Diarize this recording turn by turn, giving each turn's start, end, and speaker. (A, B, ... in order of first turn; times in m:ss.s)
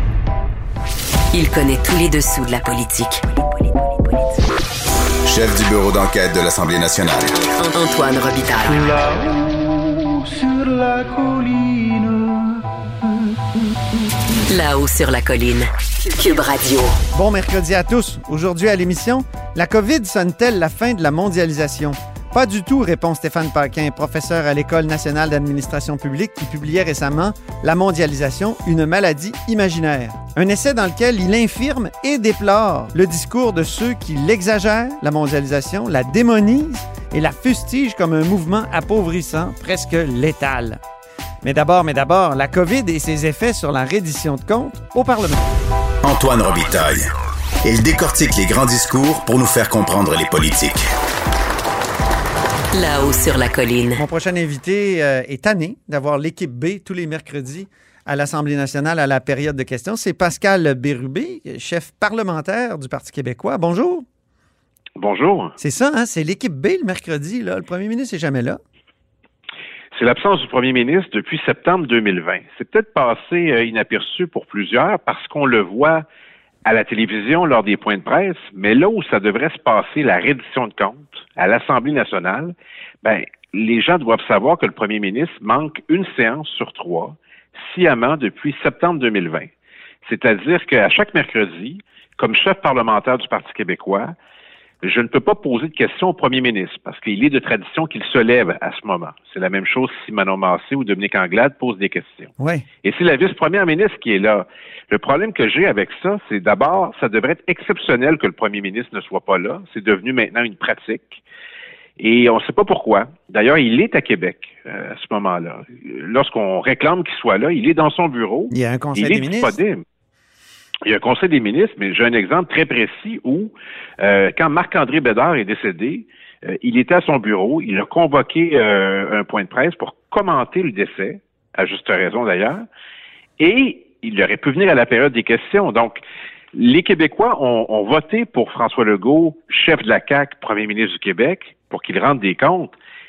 0:01.3-0:04.4 A
0:05.3-0:07.4 B
0:07.5-0:09.0 A
0:08.7-0:12.6 C
0:14.5-0:17.0 A
0:17.1-0:40.8 D
0:41.4-0:45.4 D
0:46.0-0:47.1 B
0:47.6-0:50.9 B
0:52.7-0:54.0 A
0:54.0-1:04.1 D
1:05.0-1:05.6 E
1:05.6-1:08.6 D
1:09.9-1:16.0 E
1:16.6-1:29.5 E
1:30.0-1:34.2 E
1:34.8-1:42.3 E
1:42.4-1:42.7 D
1:42.8-1:51.2 E
1:52.0-1:59.8 E
1:58.5-1:59.6 D
2:00.8-2:12.7 E
2:13.4-2:16.0 E
2:16.5-2:22.7 E